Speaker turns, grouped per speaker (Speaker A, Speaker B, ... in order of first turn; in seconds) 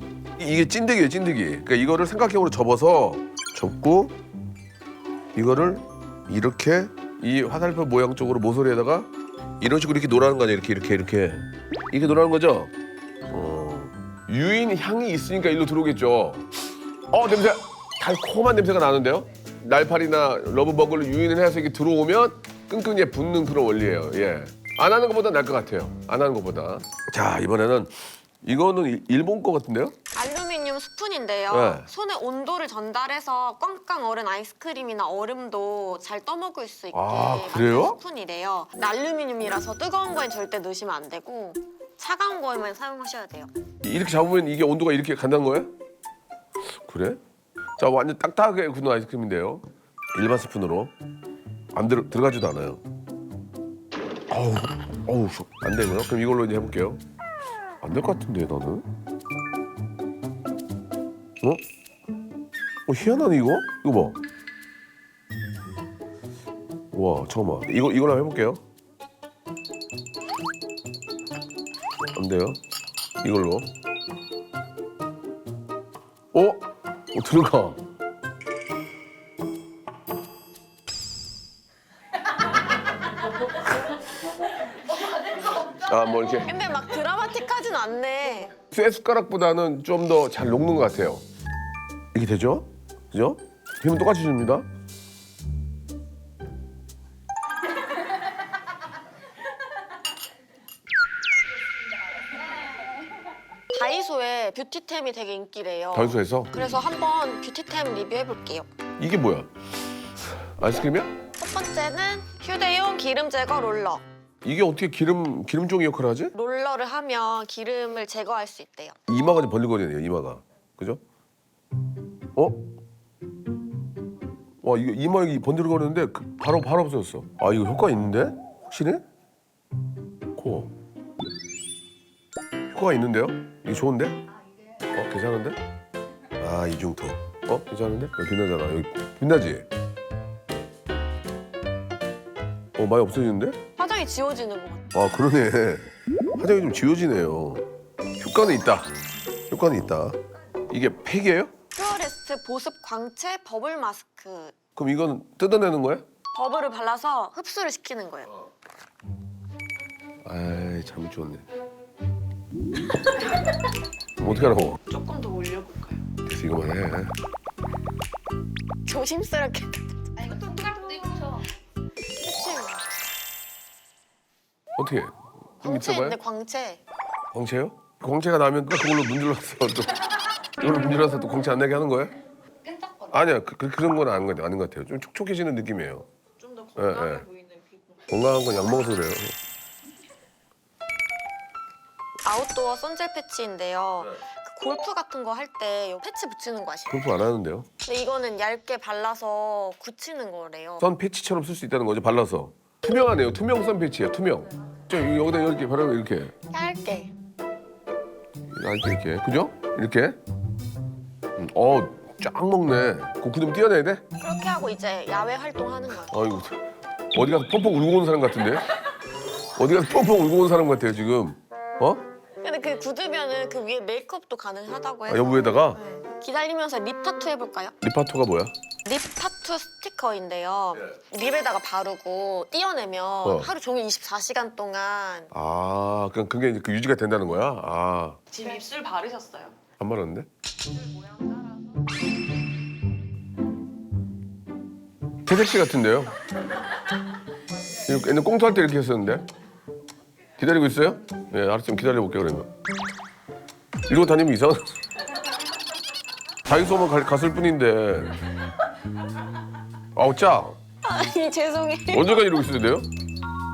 Speaker A: 0.4-4.2, 5.3-9.1, 9.6-12.7, 13.3-16.5, 17.1-29.9, 31.5-31.9, 36.9-38.0, 43.8-45.7, 46.8-47.2, 47.8-50.9, 51.7-52.8, 54.3-57.0, 57.8-58.9, 62.9-64.2, 66.9-68.6, 72.1-72.6, 73.2-73.7, 76.3-77.8, 85.7-86.5, 88.7-91.2, 92.1-94.7, 105.9-106.6, 109.0-109.5, 110.3-111.1, 114.4-116.3, 119.1-121.0, 122.3-122.6, 124.6-129.0, 130.4-130.7, 132.7-134.2, 134.9-135.6, 136.4-139.7, 142.8-143.6, 144.9-147.7, 148.2-148.9, 149.5-150.2, 150.7-151.5, 154.8-156.0, 160.2-161.4, 164.2-164.8, 166.2-167.1, 174.8-176.2, 177.3-179.9, 180.6-182.2, 183.1-186.1, 186.8-187.2, 188.1-189.4, 196.9-197.7, 200.8-206.3, 208.5-210.2, 211.4-214.0, 216.1-218.7, 219.6-222.0, 225.1-225.8, 227.8-228.5, 233.2-233.5, 235.3-238.2, 239.8-240.3, 245.3-246.1, 247.9-249.3, 250.4-252.5, 253.9-254.8, 256.4-258.2, 259.9-260.6, 261.9-262.9
Speaker B: 30.1-43.5, 86.4-88.5, 103.7-108.7, 111.4-114.0, 116.3-119.0, 143.8-144.9, 151.8-154.6, 156.3-158.4, 168.9-170.2, 172.2-172.8, 175.6-176.8, 192.2-197.1, 197.8-200.8, 206.5-207.1, 214.2-216.1, 222.4-227.8, 228.8-235.3, 260.8-262.2
Speaker C: 164.9-166.1, 186.4-188.2, 238.3-239.6, 241.1-241.4
Speaker D: 170.2-171.4, 182.6-183.2